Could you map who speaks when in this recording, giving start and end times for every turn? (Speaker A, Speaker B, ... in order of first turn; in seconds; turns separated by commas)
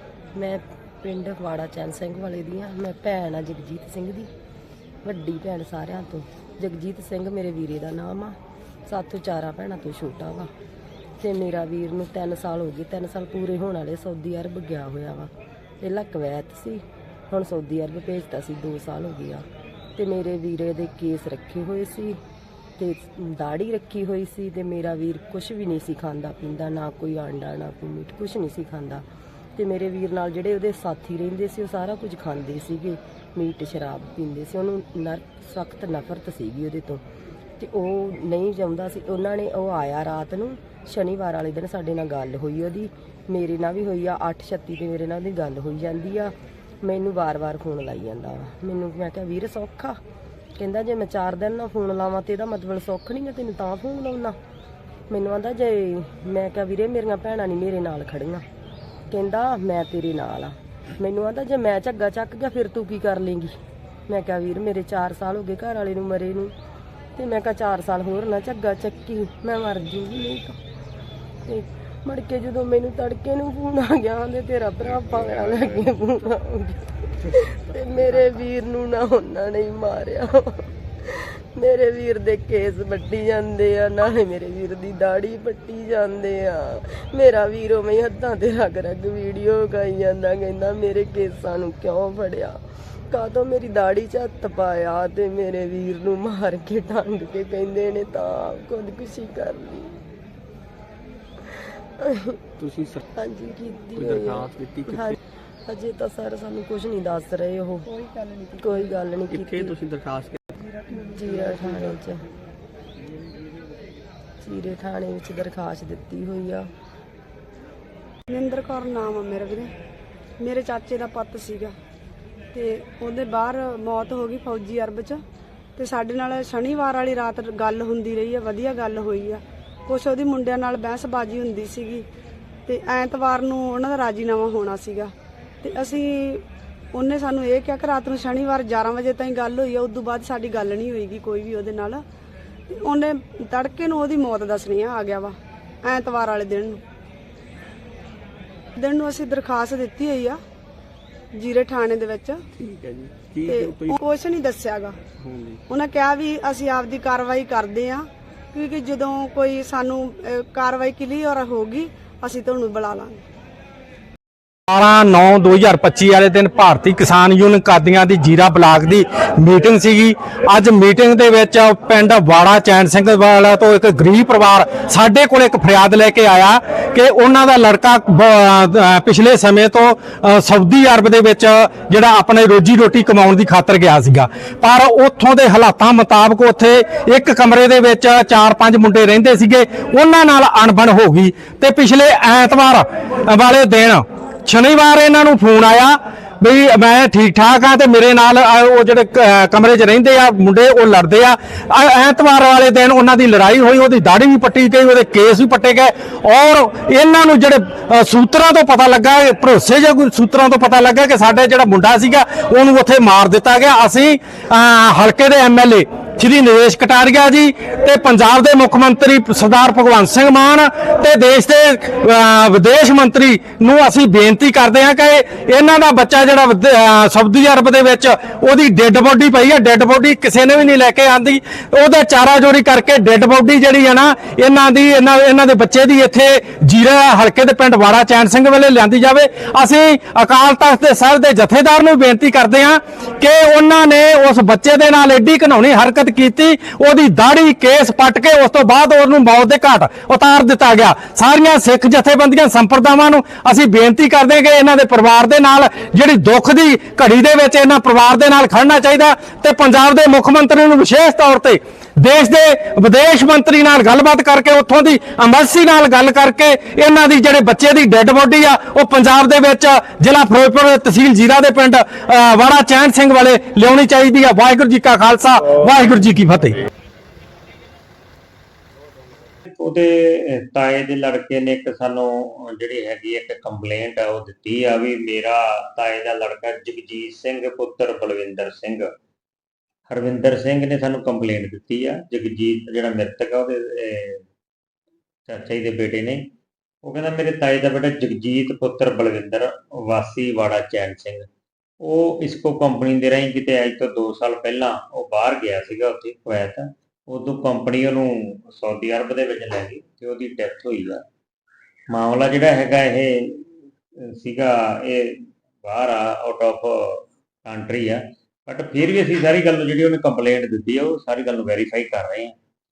Speaker A: 0.3-4.3, Speaker A: 5.0-8.3, Speaker A: 8.9-10.5, Speaker A: 11.2-22.2, Speaker A: 22.8-29.0, Speaker A: 29.6-37.0, Speaker A: 37.6-50.0, Speaker A: 50.6-54.4, Speaker A: 55.1-58.5, Speaker A: 59.1-63.5, Speaker A: 64.1-66.5, Speaker A: 67.1-70.6, Speaker A: 71.5-100.0, Speaker A: 102.0-102.3, Speaker B: 102.6-103.0, Speaker A: 103.1-107.9, Speaker B: 104.0-105.2, Speaker A: 108.6-109.8, Speaker B: 109.3-110.7, Speaker A: 111.0-112.2, Speaker A: 114.4-116.7, Speaker C: 118.3-119.7, Speaker C: 120.4-121.7, Speaker C: 122.5-125.2, Speaker C: 125.8-132.0, Speaker C: 132.7-135.1, Speaker C: 135.6-136.4, Speaker C: 136.9-142.0, Speaker C: 142.7-146.8, Speaker C: 148.8-150.4, Speaker C: 151.3-152.4, Speaker B: 152.6-153.9, Speaker C: 153.4-155.0, Speaker B: 155.2-155.6, Speaker C: 155.7-163.2, Speaker D: 164.7-276.6, Speaker E: 279.5-288.9, Speaker E: 289.9-294.2, Speaker E: 295.3-296.2, Speaker E: 296.8-301.2, Speaker E: 301.8-311.0, Speaker E: 311.9-313.5, Speaker E: 314.1-322.3